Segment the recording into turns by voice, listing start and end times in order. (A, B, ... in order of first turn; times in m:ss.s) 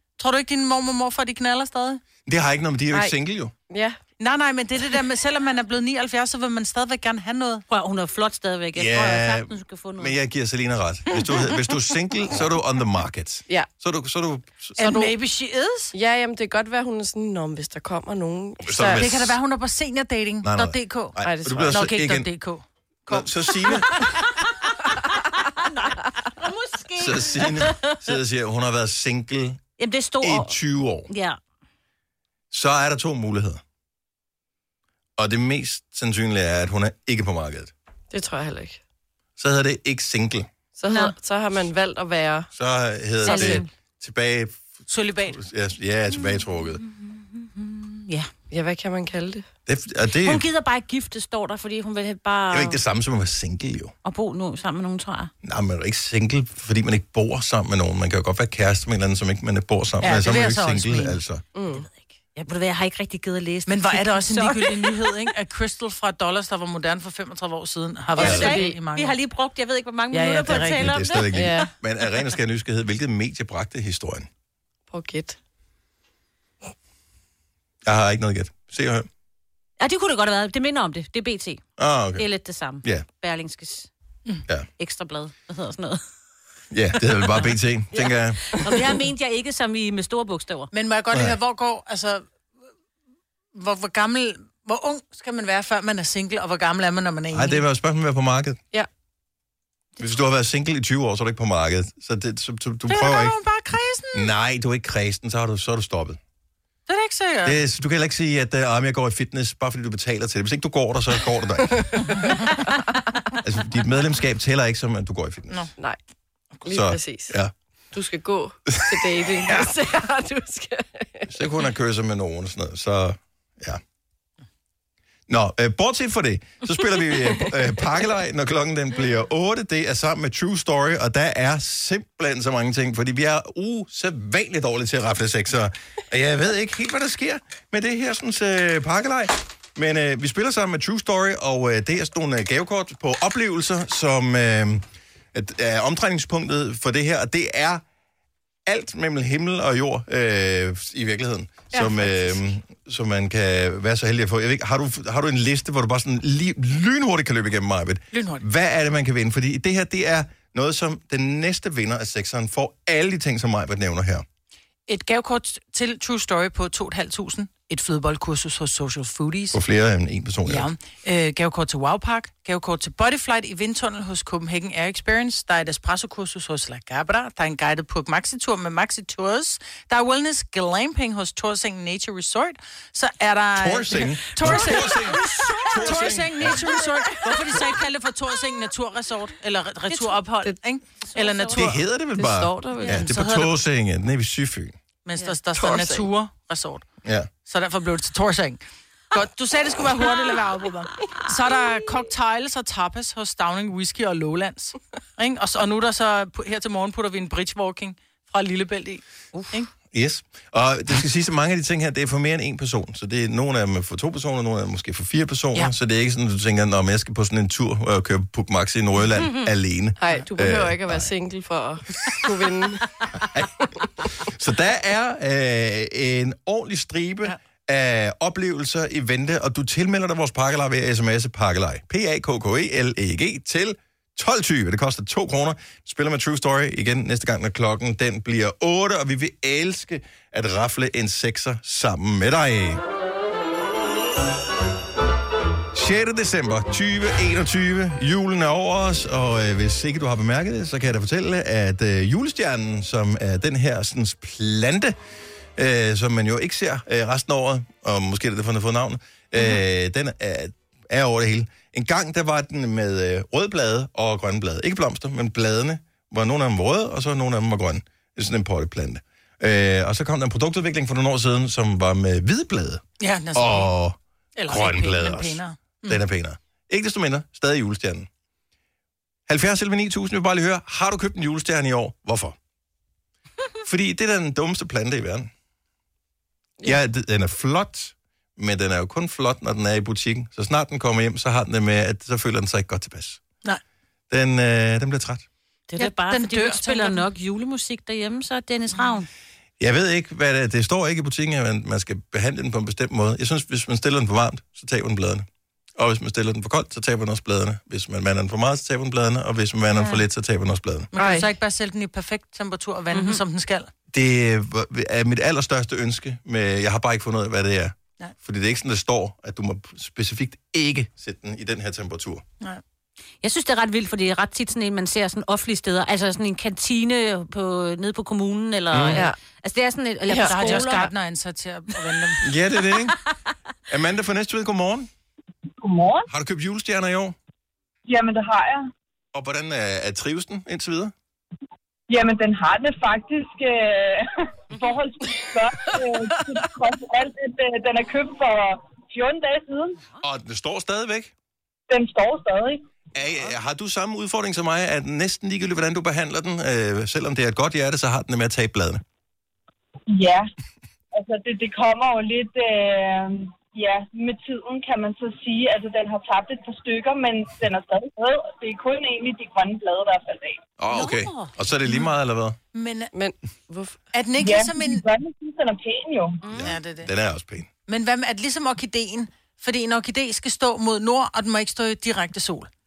0:00.2-0:02.0 A
0:02.2-0:03.5 B
0:03.7-0:04.0 C
0:04.2-0:07.6 A
0:07.7-0:10.2 D
0:08.8-0:14.8 B
0:14.8-0:15.9 A
0:14.8-0:15.1 C
0:15.9-0:19.0 C
0:18.6-0:19.4 B
0:18.9-0:22.6 A
0:20.4-0:22.3 B
0:21.2-0:21.8 C
0:23.1-0:23.9 B
0:25.1-0:28.0 D
0:27.0-0:29.6 B
0:29.8-0:30.5 D
0:30.2-0:31.1 B
0:31.1-0:31.4 D
0:32.5-0:33.6 B
0:35.2-0:37.7 B
0:38.1-0:38.8 C
0:39.4-0:40.5 B
0:40.8-0:42.5 C
0:40.9-0:41.1 D
0:42.5-0:46.8 B
0:43.2-0:43.7 D
0:44.9-0:45.4 A
0:46.1-0:48.3 D
0:48.5-0:49.4 C
0:49.7-0:50.4 B
0:50.2-0:52.8 D
0:52.5-0:53.9 B
0:54.0-0:55.3 D
0:55.4-1:01.4 B
1:00.0-1:01.2 A
1:01.5-1:01.9 C
1:01.8-1:05.0 D
1:03.6-1:09.2 A
1:08.2-1:11.6 D
1:08.2-1:08.6 B
1:08.2-1:08.8 C
1:10.1-1:10.9 A
1:10.5-1:14.3 B
1:11.3-1:11.7 C
1:14.9-1:15.4 C
1:17.8-1:19.1 B
1:19.8-1:21.6 D
1:21.8-1:22.2 B
1:22.2-1:23.9 D
1:24.8-1:26.0 D
1:26.7-1:28.4 B
1:27.9-1:30.7 D
1:30.7-1:32.2 A
1:33.5-1:37.6 A
1:37.3-1:38.6 B
1:40.0-1:43.3 B
1:42.9-1:44.3 A
1:44.1-1:46.2 B
1:46.9-1:47.6 A
1:47.4-1:52.0 B
1:53.4-1:55.7 B
1:56.6-1:57.4 C
1:56.6-1:57.5 B
1:57.9-2:01.3 C
1:58.7-1:59.7 B
2:01.3-2:03.8 B
2:05.3-2:27.8 B
2:28.6-2:44.2 B
2:31.7-2:32.3 C
2:38.1-2:38.4 A
2:44.9-2:49.6 A
2:49.5-2:50.7 B
2:50.4-3:11.8 A
3:03.6-3:06.6 B
3:09.9-3:10.2 D
3:11.1-3:11.6 D
3:11.5-3:14.7 B
3:12.2-3:13.0 C
3:12.9-3:13.5 A
3:15.0-3:16.8 A
3:15.5-3:16.1 C
3:17.0-3:17.3 B
3:17.4-3:18.6 A
3:19.1-3:29.7 A
3:29.9-3:41.1 B
3:40.0-3:42.9 C
3:44.3-4:02.8 B
4:05.7-4:15.0 B
4:15.6-4:32.8 B
4:33.0-4:33.7 A
4:33.3-4:34.0 B
4:34.4-4:36.0 A
4:34.5-4:38.1 B
4:39.3-4:42.4 B
4:43.6-4:45.3 B
4:46.6-4:53.2 B
4:54.1-4:55.2 B
4:55.7-4:59.1 D
4:55.8-4:57.0 A
4:59.6-5:10.9 B
5:10.9-5:13.7 A
5:11.0-5:11.3 C
5:12.9-5:13.2 D
5:13.9-5:22.2 B
5:23.2-5:30.9 D
5:28.7-5:29.0 B
5:30.1-5:30.3 C
5:30.2-5:32.3 A
5:32.2-5:33.0 B
5:33.7-5:34.9 B
5:35.6-5:36.1 E
5:36.1-5:37.2 B
5:37.9-5:38.6 E
5:39.1-5:40.9 B
5:41.9-5:49.8 E
5:50.0-5:51.1 B
5:51.7-5:52.6 E
5:52.9-5:58.8 B
5:59.9-6:00.3 E
6:00.9-6:10.4 E
6:10.6-6:12.4 B
6:10.7-6:11.3 D
6:12.5-6:12.9 A
6:12.9-6:13.8 C
6:13.9-6:14.8 A
6:14.2-6:16.2 E
6:16.2-6:16.5 D
6:16.3-6:17.5 B
6:16.4-6:16.9 A
6:17.7-6:22.5 A